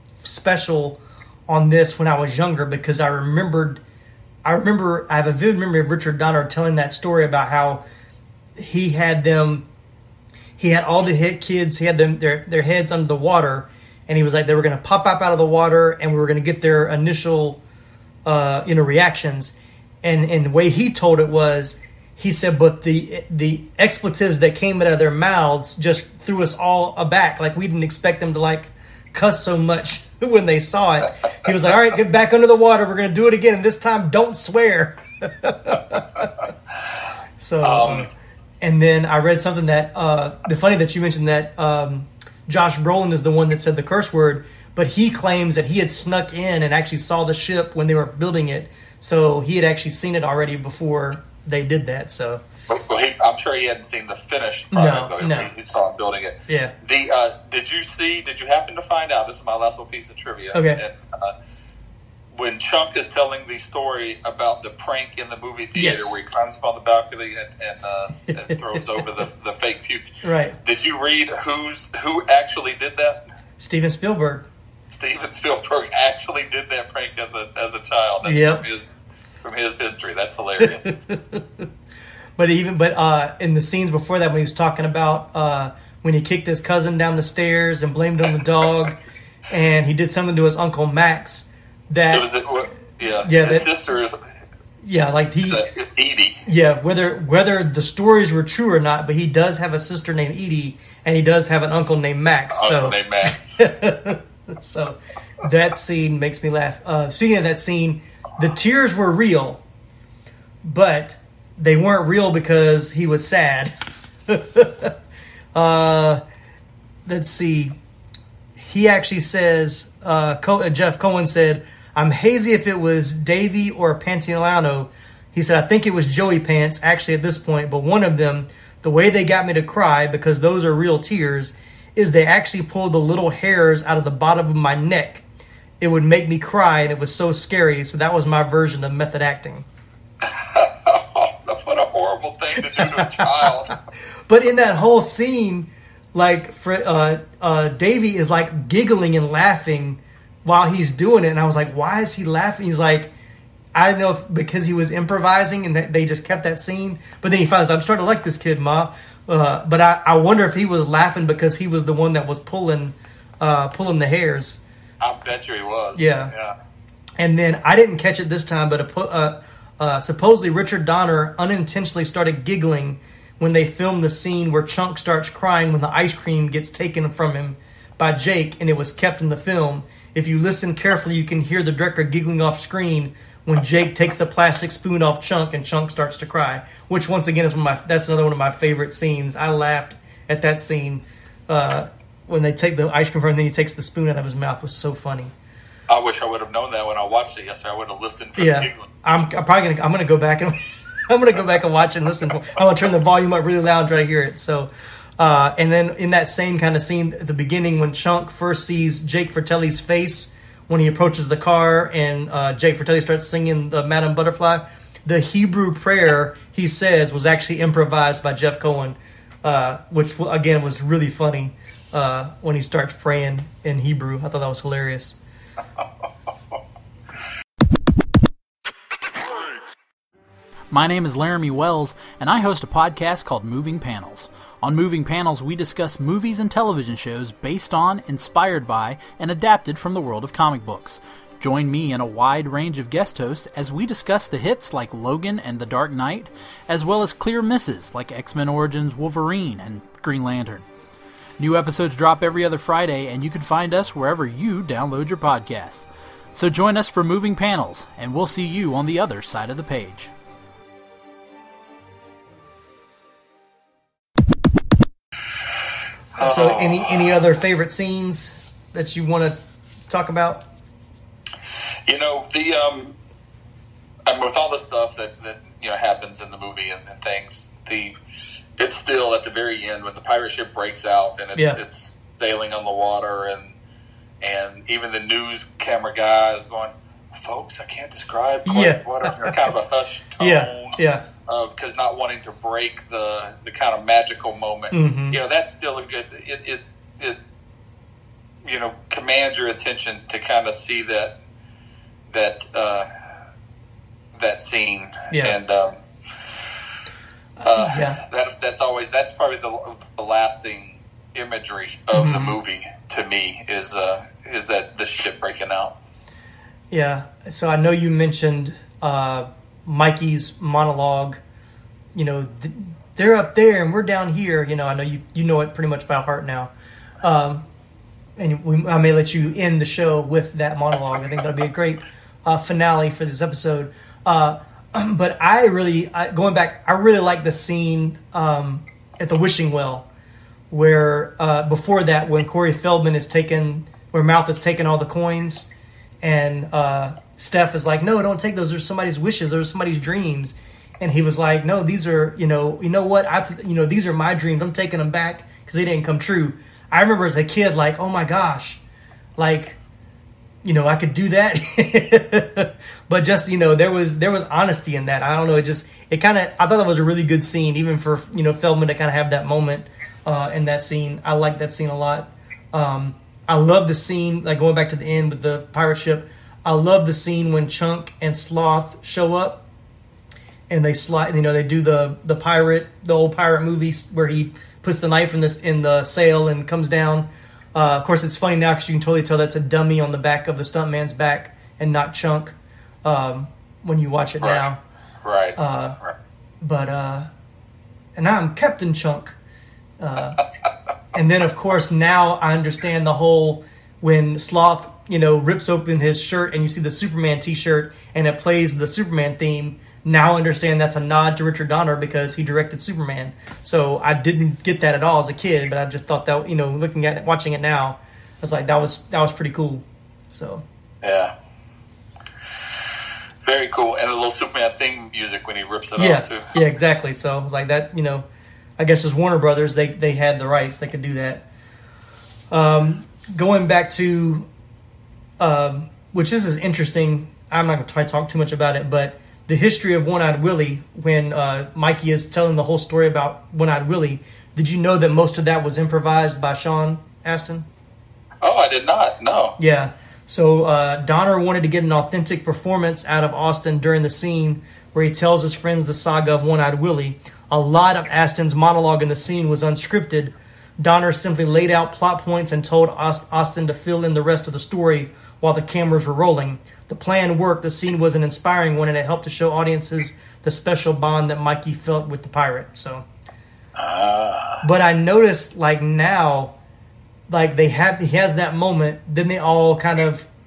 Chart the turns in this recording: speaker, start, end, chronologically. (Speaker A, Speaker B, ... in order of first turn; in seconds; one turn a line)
Speaker A: 0.2-3.8
Speaker A: 4.4-7.8
Speaker A: 8.6-9.7
Speaker A: 10.6-17.6
Speaker A: 18.2-36.3
Speaker A: 37.4-52.4
Speaker B: 37.6-38.1
Speaker B: 52.7-61.3
Speaker A: 54.7-55.5
Speaker A: 60.5-60.8
Speaker B: 62.3-73.2
Speaker A: 65.7-66.2
Speaker A: 68.3-69.0
Speaker A: 70.2-70.6
Speaker A: 73.6-74.5
Speaker B: 74.9-78.8
Speaker A: 78.2-78.6
Speaker B: 79.4-80.9
Speaker A: 80.6-81.7
Speaker A: 82.4-89.0
Speaker A: 89.5-92.3
Speaker B: 92.1-94.2
Speaker A: 93.2-93.7
Speaker A: 94.8-95.6
Speaker B: 95.4-96.4
Speaker A: 96.5-109.6
Speaker B: 102.5-103.6
Speaker A: 110.6-113.7
Speaker A: 114.3-114.9
Speaker A: 115.5-116.2
Speaker A: 117.0-117.8
Speaker A: 118.6-135.2
Speaker A: 135.8-139.7
Speaker B: 140.2-143.7
Speaker A: 142.6-143.7
Speaker A: 144.3-153.1
Speaker A: 153.7-164.6
Speaker B: 165.0-166.5
Speaker A: 165.9-166.3
Speaker A: 167.2-195.3
Speaker B: 195.9-198.8
Speaker A: 198.4-225.2
Speaker C: 230.7-250.7
Speaker C: 251.4-260.1
Speaker B: 266.2-267.1
Speaker A: 266.2-269.4
Speaker A: 269.9-270.4
Speaker B: 271.9-272.9
Speaker B: 274.1-277.9
Speaker B: 278.6-283.6
Speaker B: 284.2-297.2
Speaker A: 288.4-289.4
Speaker A: 290.2-291.0
Speaker A: 294.7-295.2
Speaker B: 298.4-301.1
Speaker B: 302.1-302.9
Speaker B: 304.1-305.8
Speaker A: 307.4-308.0
Speaker B: 307.4-315.7
Speaker A: 311.9-312.4
Speaker A: 316.7-321.2
Speaker A: 321.9-327.4
Speaker A: 328.2-339.9
Speaker A: 340.5-345.5
Speaker A: 346.0-358.6
Speaker A: 359.2-359.6
Speaker A: 360.4-379.4
Speaker A: 380.5-394.6
Speaker B: 395.0-395.9
Speaker A: 395.4-395.8
Speaker A: 396.4-397.1
Speaker A: 397.9-399.1
Speaker A: 399.8-400.2
Speaker A: 400.9-420.4
Speaker B: 420.8-421.1
Speaker B: 423.2-426.3
Speaker A: 425.8-428.1
Speaker A: 428.6-431.2
Speaker A: 432.3-434.3
Speaker A: 435.2-447.5
Speaker B: 448.2-449.4
Speaker A: 449.4-472.9
Speaker B: 473.6-474.4
Speaker A: 474.4-476.3
Speaker A: 477.1-480.1